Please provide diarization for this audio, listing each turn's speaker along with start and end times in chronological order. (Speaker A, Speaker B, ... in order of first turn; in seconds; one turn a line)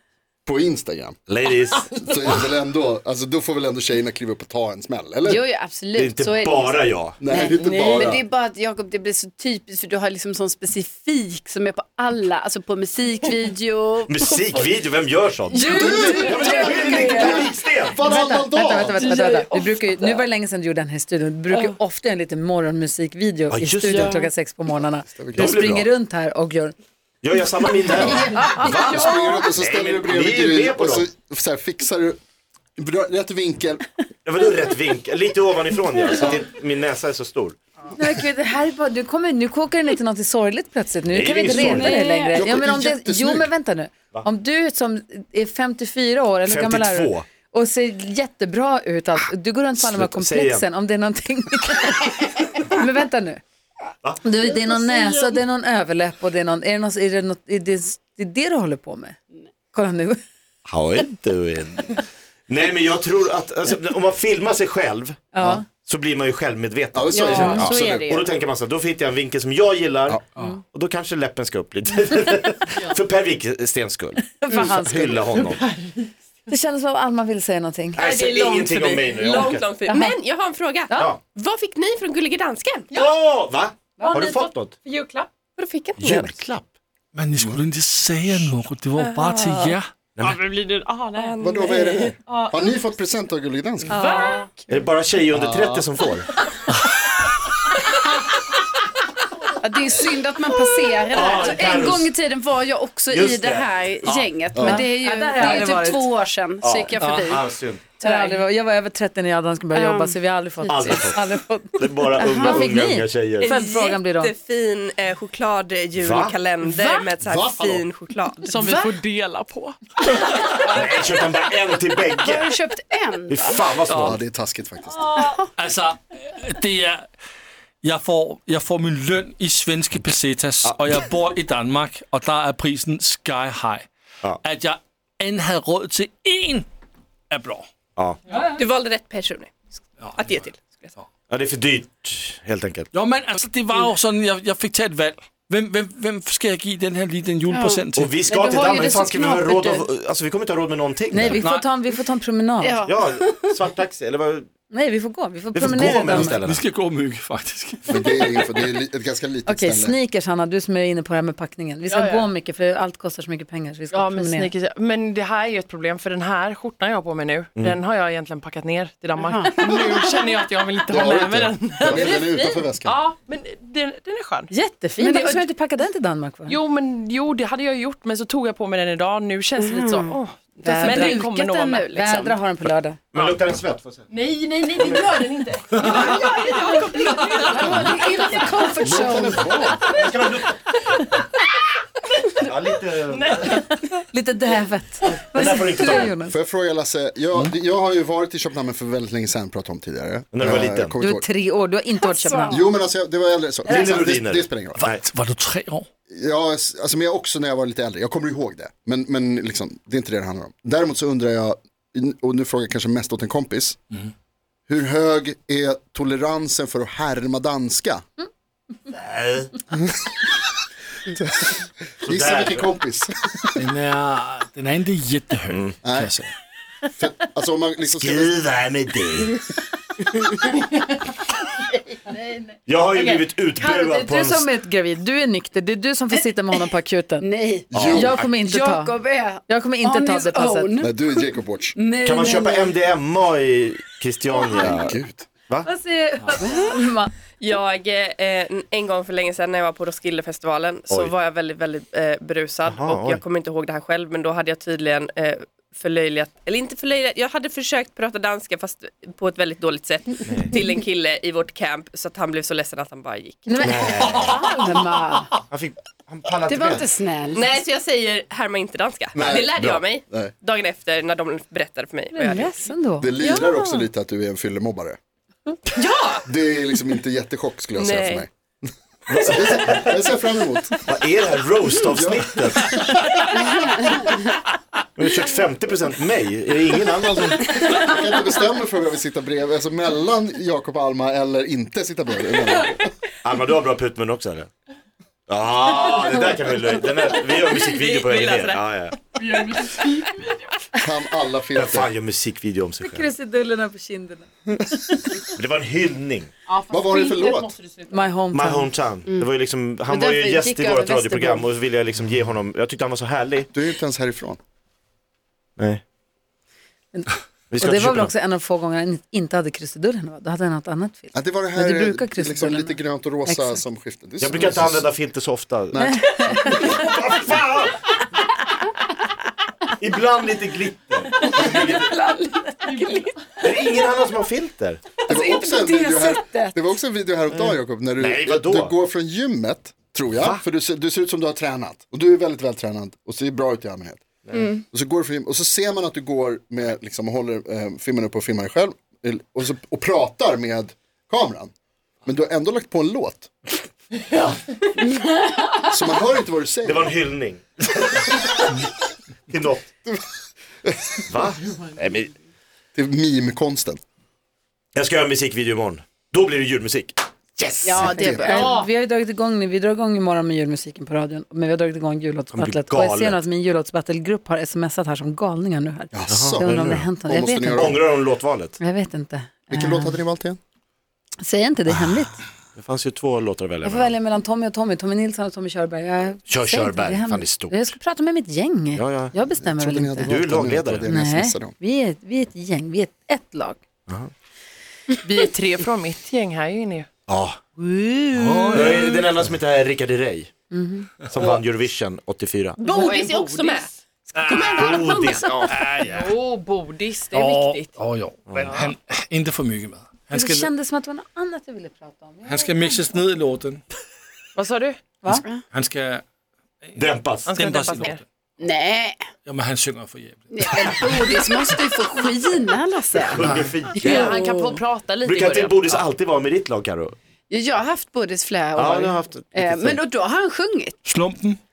Speaker A: 0.4-1.2
Speaker B: 1.3-2.5
Speaker A: 1.9-5.4
Speaker C: 5.2-14.6
Speaker B: 5.9-7.2
Speaker A: 7.2-8.2
Speaker D: 7.6-8.2
Speaker B: 14.1-18.0
Speaker E: 15.5-26.8
Speaker C: 15.6-16.6
Speaker A: 15.7-19.1
Speaker D: 19.1-19.6
Speaker B: 23.5-24.2
Speaker A: 25.1-25.6
Speaker B: 25.4-25.9
Speaker B: 27.2-31.1
Speaker E: 28.0-29.4
Speaker A: 28.7-32.2
Speaker A: 32.8-33.9
Speaker B: 34.2-37.6
Speaker E: 37.9-53.4
Speaker B: 41.1-42.0
Speaker C: 41.4-42.4
Speaker A: 42.4-43.5
Speaker B: 46.5-47.3
Speaker B: 49.8-50.7
Speaker E: 54.2-59.2
Speaker C: 54.8-55.1
Speaker E: 59.7-60.2
Speaker B: 60.7-75.6
Speaker E: 65.3-65.7
Speaker A: 66.9-68.0
Speaker C: 67.1-68.3
Speaker E: 67.3-67.7
Speaker E: 74.3-75.3
Speaker D: 75.5-76.1
Speaker E: 76.5-78.0
Speaker B: 78.0-79.7
Speaker F: 78.0-82.9
Speaker E: 79.9-80.2
Speaker B: 80.9-81.2
Speaker B: 82.9-84.8
Speaker D: 84.0-85.3
Speaker F: 85.6-86.3
Speaker B: 86.0-86.7
Speaker G: 87.1-89.9
Speaker F: 89.0-89.7
Speaker B: 90.1-90.4
Speaker D: 90.2-91.5
Speaker F: 91.2-92.1
Speaker A: 91.4-94.0
Speaker D: 92.3-92.7
Speaker E: 93.9-94.4
Speaker D: 94.0-94.5
Speaker B: 94.7-96.3
Speaker A: 95.3-95.9
Speaker C: 99.6-107.5
Speaker B: 101.0-102.1
Speaker B: 103.1-104.3
Speaker A: 104.5-104.8
Speaker E: 104.6-106.1
Speaker B: 106.6-107.9
Speaker G: 107.0-107.4
Speaker C: 108.0-108.4
Speaker E: 108.0-114.3
Speaker C: 109.7-110.2
Speaker B: 110.7-113.5
Speaker C: 112.2-112.8
Speaker D: 113.4-113.9
Speaker F: 113.6-118.4
Speaker B: 116.0-116.4
Speaker D: 116.7-117.1
Speaker A: 117.2-117.8
Speaker D: 118.4-119.8
Speaker C: 118.6-118.9
Speaker B: 120.6-122.5
Speaker C: 122.2-123.7
Speaker B: 123.3-124.2
Speaker G: 123.9-124.2
Speaker A: 124.0-125.1
Speaker C: 125.1-125.5
Speaker G: 125.5-127.0
Speaker G: 127.8-133.9
Speaker B: 130.6-131.1
Speaker G: 134.4-136.7
Speaker G: 137.3-137.7
Speaker F: 138.3-139.5
Speaker G: 140.0-141.0
Speaker F: 140.1-140.9
Speaker B: 141.3-142.9
Speaker G: 142.9-148.1
Speaker C: 147.5-149.8
Speaker B: 147.9-151.4
Speaker E: 151.1-152.8
Speaker G: 151.4-151.6
Speaker C: 152.6-153.5
Speaker B: 152.8-154.5
Speaker E: 154.7-156.4
Speaker B: 155.5-156.6
Speaker G: 156.1-157.9
Speaker A: 157.9-160.0
Speaker E: 159.5-164.5
Speaker D: 161.9-162.2
Speaker D: 163.9-174.5
Speaker C: 169.3-169.7
Speaker A: 170.9-173.0
Speaker E: 174.5-176.6
Speaker C: 175.0-175.4
Speaker D: 175.1-175.4
Speaker D: 176.5-182.2
Speaker C: 179.6-182.4
Speaker E: 180.7-181.2
Speaker E: 181.9-183.0
Speaker B: 183.1-184.1
Speaker D: 183.2-183.4
Speaker D: 184.1-188.6
Speaker B: 184.8-185.3
Speaker C: 186.0-189.5
Speaker A: 188.8-189.9
Speaker B: 189.7-190.6
Speaker B: 192.4-193.6
Speaker D: 193.1-193.9
Speaker E: 193.5-196.3
Speaker B: 195.2-196.2
Speaker A: 196.2-201.3
Speaker B: 200.3-201.0
Speaker E: 201.0-202.6
Speaker C: 202.0-202.6
Speaker A: 202.5-204.9
Speaker B: 203.6-205.0
Speaker G: 204.8-205.9
Speaker A: 206.1-213.8
Speaker A: 214.7-218.0
Speaker B: 218.9-219.6
Speaker A: 221.1-223.6
Speaker B: 222.0-222.7
Speaker G: 223.6-226.3
Speaker B: 225.5-225.8
Speaker A: 225.8-226.1
Speaker A: 226.9-228.3
Speaker B: 227.8-229.4
Speaker B: 232.7-234.5
Speaker E: 233.6-237.3
Speaker C: 237.2-237.7
Speaker A: 237.7-238.2
Speaker B: 237.7-238.3
Speaker E: 237.8-240.8
Speaker C: 238.5-242.8
Speaker A: 240.8-241.8
Speaker B: 242.0-244.9
Speaker A: 244.5-245.3
Speaker E: 245.6-247.1
Speaker F: 247.4-263.6
Speaker B: 252.7-253.2
Speaker B: 260.3-260.5
Speaker E: 263.5-265.3
Speaker B: 263.6-264.5
Speaker C: 264.1-264.9
Speaker B: 265.5-266.9
Speaker C: 266.5-267.6
Speaker F: 267.3-272.5
Speaker A: 269.1-270.3
Speaker E: 272.1-273.1
Speaker A: 273.0-275.0
Speaker F: 273.2-273.9
Speaker F: 275.8-276.2
Speaker A: 276.2-278.3
Speaker F: 277.8-278.2
Speaker B: 279.1-279.9
Speaker A: 279.2-280.9
Speaker B: 280.9-283.2
Speaker A: 281.9-282.8
Speaker C: 283.6-284.0
Speaker B: 285.0-287.9
Speaker A: 287.7-292.9
Speaker B: 293.2-294.5
Speaker B: 295.3-299.1
Speaker D: 297.7-298.6
Speaker D: 299.2-300.5
Speaker A: 300.8-301.9
Speaker B: 301.5-303.1
Speaker E: 302.8-305.2
Speaker B: 305.4-306.3
Speaker D: 306.5-308.1
Speaker A: 306.7-307.5
Speaker E: 307.9-308.7
Speaker B: 308.3-313.5
Speaker C: 309.9-311.5
Speaker A: 313.5-314.4
Speaker E: 316.9-323.6
Speaker B: 317.5-318.1
Speaker A: 321.1-324.9
Speaker B: 324.2-325.8
Speaker A: 325.7-326.7
Speaker E: 325.8-326.9
Speaker B: 326.4-327.7
Speaker B: 329.8-331.9
Speaker E: 331.1-333.1
Speaker B: 333.4-335.0
Speaker E: 335.1-336.6
Speaker A: 335.1-344.0
Speaker B: 338.0-338.8
Speaker B: 340.2-340.4
Speaker C: 344.3-344.6
Speaker A: 344.6-351.5
Speaker A: 352.1-353.3
Speaker B: 354.1-354.6
Speaker C: 355.1-355.5
Speaker A: 355.7-356.9
Speaker B: 356.6-358.1
Speaker B: 359.3-359.7
Speaker A: 360.6-361.0
Speaker B: 361.1-362.1
Speaker A: 362.8-363.8
Speaker B: 364.8-367.9
Speaker C: 367.6-368.6
Speaker A: 367.7-368.5
Speaker E: 368.0-378.0
Speaker B: 372.3-373.2
Speaker A: 375.9-377.8
Speaker B: 376.1-376.9
Speaker B: 377.6-378.6
Speaker E: 378.6-380.0
Speaker A: 379.5-380.4
Speaker E: 381.2-382.2
Speaker B: 382.6-383.9
Speaker E: 383.6-390.1
Speaker B: 386.3-387.7
Speaker B: 388.8-389.1
Speaker A: 389.4-391.5
Speaker B: 390.1-390.9
Speaker E: 390.9-393.6
Speaker D: 395.0-396.9
Speaker B: 397.1-397.4
Speaker E: 397.8-398.6
Speaker G: 398.1-399.0
Speaker B: 398.5-400.3
Speaker E: 400.5-400.9
Speaker B: 401.1-402.6
Speaker D: 402.6-403.7
Speaker F: 402.7-403.7
Speaker G: 404.1-404.5
Speaker F: 404.2-405.0
Speaker D: 404.3-407.7
Speaker B: 404.3-405.8
Speaker G: 405.5-406.1
Speaker G: 407.1-410.5
Speaker B: 408.3-408.6
Speaker D: 408.5-408.8
Speaker E: 410.1-413.0
Speaker G: 412.3-413.6
Speaker D: 414.4-414.8
Speaker G: 415.5-416.0
Speaker G: 416.6-418.0
Speaker B: 416.8-417.4
Speaker D: 417.2-418.0
Speaker C: 418.4-419.0
Speaker G: 419.2-421.2
Speaker C: 420.3-423.2
Speaker B: 423.0-424.2
Speaker G: 423.1-423.5
Speaker D: 423.8-425.8
Speaker E: 423.9-424.6
Speaker B: 425.0-426.9
Speaker C: 427.3-430.8
Speaker B: 428.5-429.8
Speaker G: 430.9-431.4